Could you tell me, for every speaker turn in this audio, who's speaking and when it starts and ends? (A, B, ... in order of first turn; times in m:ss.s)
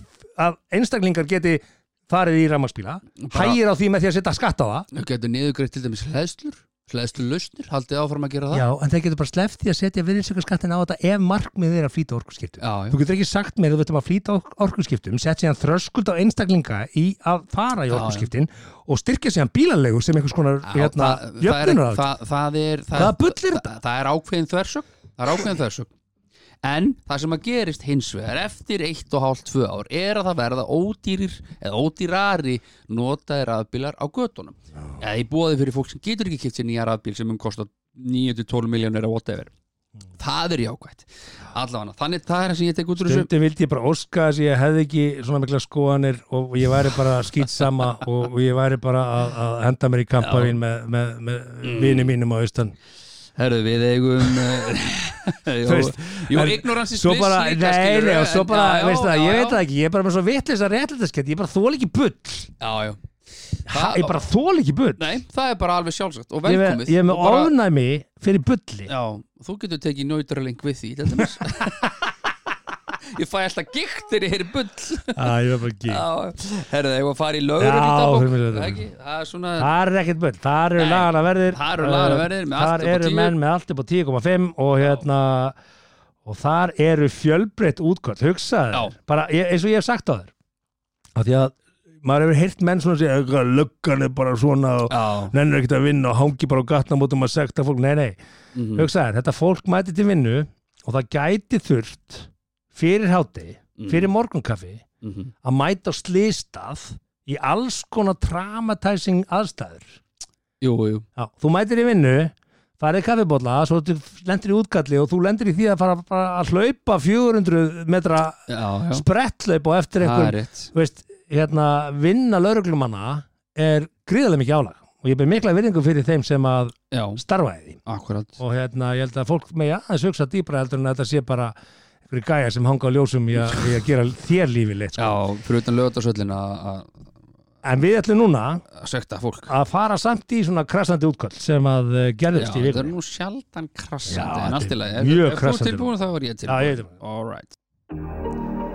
0:00.2-0:04.9 A
0:03.2-0:03.6 B
0:04.9-0:08.6 B
0:08.5-0:22.1 A
0:12.6-0:13.0 B
0:17.9-0:18.3 B
0:20.6-0:25.9 B
0:22.9-0:23.7 A
0:26.6-0:39.5 B
0:40.2-0:43.3 B
0:43.0-0:52.8 A
0:50.2-0:50.6 B
0:51.6-0:52.1 B
0:53.4-0:59.6 B
0:55.6-1:02.5 A
1:02.6-1:03.1 B
1:03.7-1:04.2 B
1:03.7-1:05.1 A
1:05.0-1:07.5 B
1:06.4-1:08.9 A
1:08.9-1:11.9 B
1:12.9-1:19.7 B
1:15.1-1:16.0 A
1:17.6-1:18.8 A
1:19.6-1:25.6 A
1:20.8-1:23.4 B
1:26.2-1:30.3 A
1:31.2-1:38.2 A
1:34.9-1:35.3 B
1:38.5-1:38.9 B
1:38.7-1:44.8 A
1:43.8-1:44.1 B
1:45.0-1:45.3 B
1:45.4-1:50.0 A
1:50.6-1:51.0 B
1:51.2-2:07.8 A
1:58.5-1:59.0 B
2:00.0-2:00.7 B
2:06.9-2:07.2 B
2:07.8-2:08.4 B
2:08.4-2:11.5 A
2:12.1-2:15.2 A
2:13.4-2:13.7 B
2:15.0-2:17.0 B
2:17.6-2:18.6 A
2:18.7-2:19.5 B
2:19.5-2:22.9 A
2:22.4-2:27.5 B
2:24.1-2:25.9 A
2:26.5-2:26.9 A